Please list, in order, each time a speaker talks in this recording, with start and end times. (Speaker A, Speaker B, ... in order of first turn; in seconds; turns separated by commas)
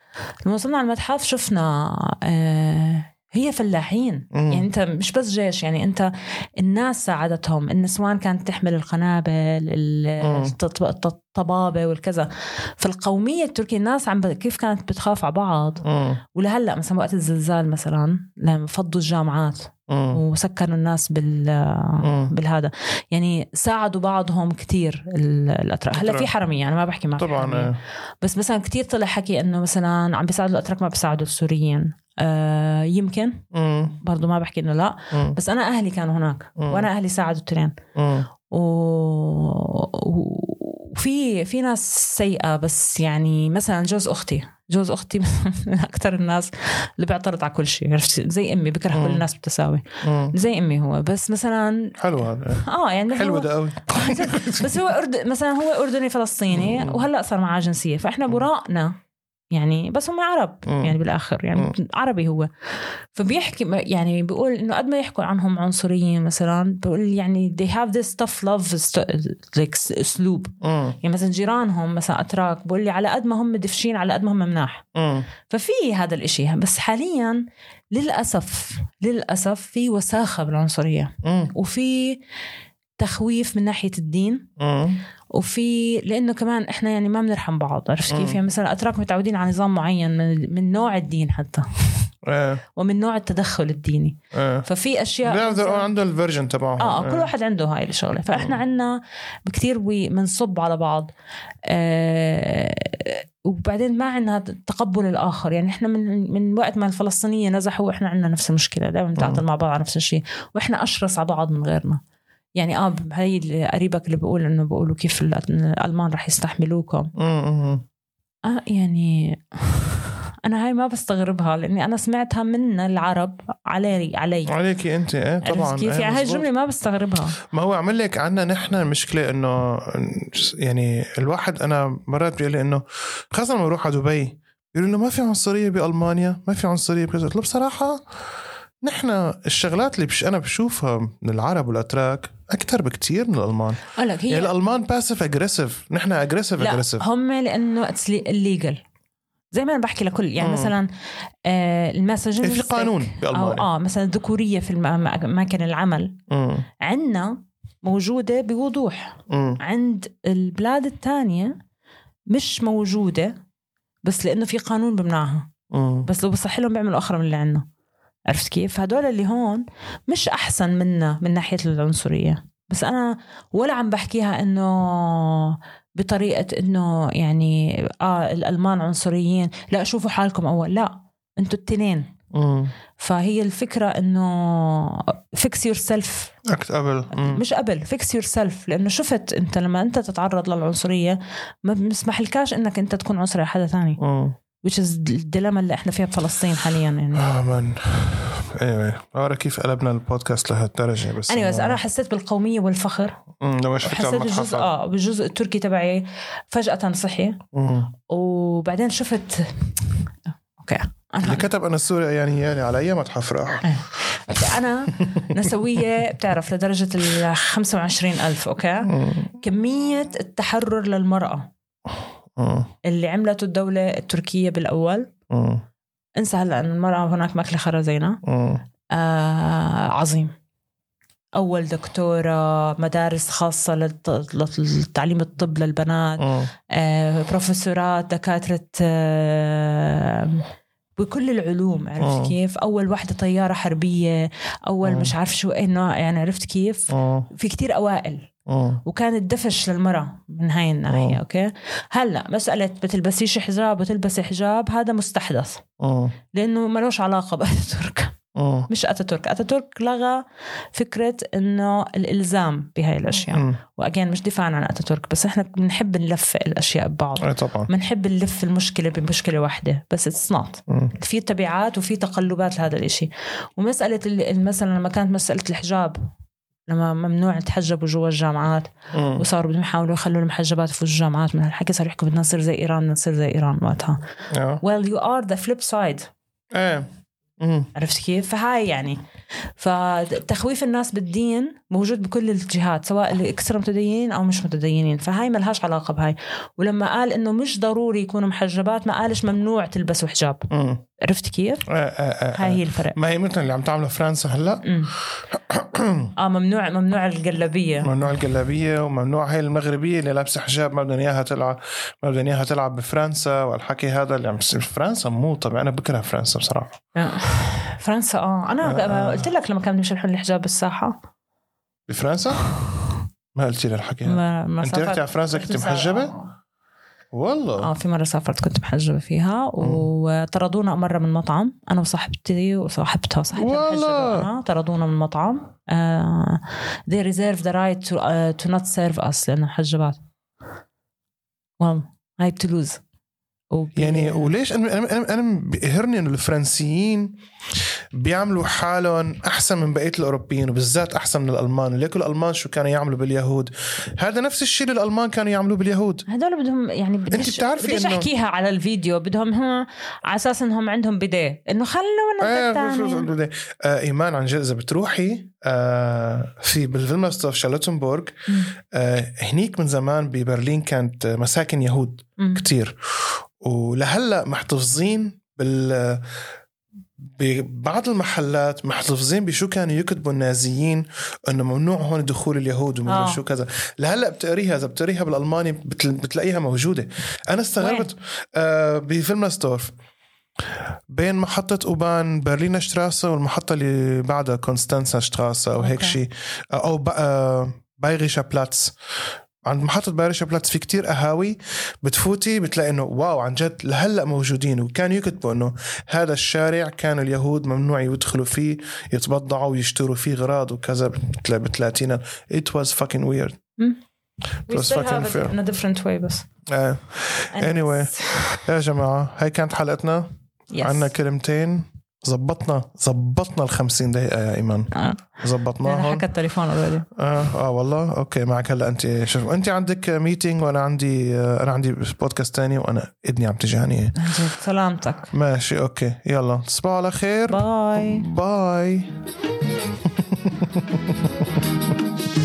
Speaker A: 0.4-33.4, Speaker B: 4.3-4.7, Speaker B: 10.2-10.5, Speaker B: 15.8-16.2, Speaker B: 19.9-20.2, Speaker B: 22.0-22.3, Speaker B: 25.9-26.3, Speaker B: 27.2-27.8, Speaker B: 33.5-34.0, Speaker A: 34.0-37.7, Speaker B: 35.1-35.4, Speaker B: 36.6-36.9, Speaker B: 38.0-38.3, Speaker A: 38.5-52.0, Speaker B: 48.9-49.2, Speaker B: 50.0-50.4, Speaker B: 52.0-54.8, Speaker A: 52.5-59.0, Speaker B: 56.5-57.0, Speaker A: 59.5-62.5, Speaker B: 60.7-61.0, Speaker A: 63.1-74.8, Speaker B: 70.6-71.0, Speaker B: 74.9-75.3, Speaker A: 75.5-82.2, Speaker B: 81.2-81.5, Speaker A: 83.0-84.5, Speaker B: 84.6-85.0, Speaker A: 85.3-92.1, Speaker B: 88.1-88.4, Speaker B: 92.2-92.6, Speaker A: 92.7-95.9, Speaker B: 94.3-94.7, Speaker B: 95.2-97.3, Speaker A: 96.8-101.1, Speaker A: 101.7-112.0, Speaker A: 112.6-117.1, Speaker B: 117.2-117.8, Speaker A: 118.4-124.5, Speaker B: 124.5-126.5, Speaker A: 125.4-127.4, Speaker B: 127.4-138.0, Speaker B: 138.8-147.1, Speaker A: 143.9-144.5, Speaker A: 146.6-148.8, Speaker A: 149.5-150.9, Speaker B: 150.4-150.7, Speaker A: 151.4-156.2, Speaker B: 152.4-153.7, Speaker B: 156.3-156.7, Speaker A: 156.8-161.6, Speaker B: 159.3-159.6, Speaker A: 162.3-163.3, Speaker A: 164.0-165.5, Speaker B: 165.7-166.1, Speaker A: 166.1-167.6, Speaker A: 168.3-182.1, Speaker B: 182.3-182.7, Speaker A: 183.0-186.3, Speaker B: 186.5-187.4, Speaker A: 187.1-194.0, Speaker B: 194.0-194.3, Speaker A: 194.6-197.3, Speaker B: 197.1-201.8, Speaker A: 201.3-203.2, Speaker B: 203.4-204.7, Speaker A: 203.8-207.4, Speaker B: 207.5-207.9, Speaker A: 208.1-209.9, Speaker A: 210.6-211.5, Speaker B: 211.2-213.7, Speaker A: 213.6-221.5, Speaker B: 215.0-215.4, Speaker B: 218.9-219.3, Speaker B: 222.3-222.7, Speaker A: 222.8-225.1, Speaker B: 225.3-225.6, Speaker A: 226.2-228.2, Speaker B: 228.2-228.6, Speaker A: 228.9-230.3, Speaker A: 231.3-240.4, Speaker B: 236.2-236.5, Speaker A: 241.0-248.3, Speaker B: 242.0-242.3, Speaker B: 244.8-245.1, Speaker B: 246.9-247.3, Speaker B: 248.5-248.8, Speaker A: 248.8-255.6, Speaker B: 250.9-251.2, Speaker B: 255.8-256.1, Speaker A: 256.3-258.1, Speaker B: 258.3-258.7, Speaker A: 258.7-260.2, Speaker A: 260.7-276.0, Speaker B: 263.3-263.6, Speaker B: 267.2-267.7, Speaker B: 270.7-270.9, Speaker A: 276.7-284.0, Speaker B: 278.9-279.2, Speaker B: 284.3-284.6, Speaker A: 284.6-286.1, Speaker B: 286.5-286.9, Speaker B: 287.4-287.7, Speaker A: 287.7-289.0, Speaker A: 289.6-300.5, Speaker B: 300.5-300.8, Speaker A: 301.0-301.7, Speaker B: 301.7-304.7, Speaker A: 302.3-302.9, Speaker A: 304.6-304.9, Speaker B: 305.3-306.1, Speaker A: 306.1-307.9, Speaker B: 307.8-316.8, Speaker A: 316.9-321.0, Speaker B: 318.6-319.3, Speaker B: 321.9-322.5, Speaker B: 323.3-326.1, Speaker A: 324.0-326.2, Speaker B: 327.1-327.7, Speaker A: 327.6-340.0, Speaker B: 329.6-329.9, Speaker B: 333.3-334.3, Speaker A: 341.6-342.8, Speaker A: 343.5-344.3, Speaker B: 343.8-347.2, Speaker B: 347.9-356.1, Speaker A: 356.1-363.1, Speaker B: 357.1-358.1, Speaker B: 362.2-376.1, Speaker A: 368.3-368.5, Speaker A: 372.2-372.5, Speaker B: 377.0-389.7, Speaker A: 382.9-383.2, Speaker A: 387.6-387.9, Speaker B: 390.9-398.7, Speaker A: 395.6-396.0, Speaker B: 399.4-413.4, Speaker A: 414.5-416.2, Speaker B: 414.5-415.4, Speaker B: 416.5-420.1, Speaker A: 417.3-418.3, Speaker A: 420.5-420.9, Speaker B: 420.6-426.1, Speaker A: 424.7-426.9, Speaker B: 426.9-434.0, Speaker A: 433.9-435.1, Speaker B: 435.1-438.9, Speaker A: 437.3-438.1, Speaker B: 439.8-441.4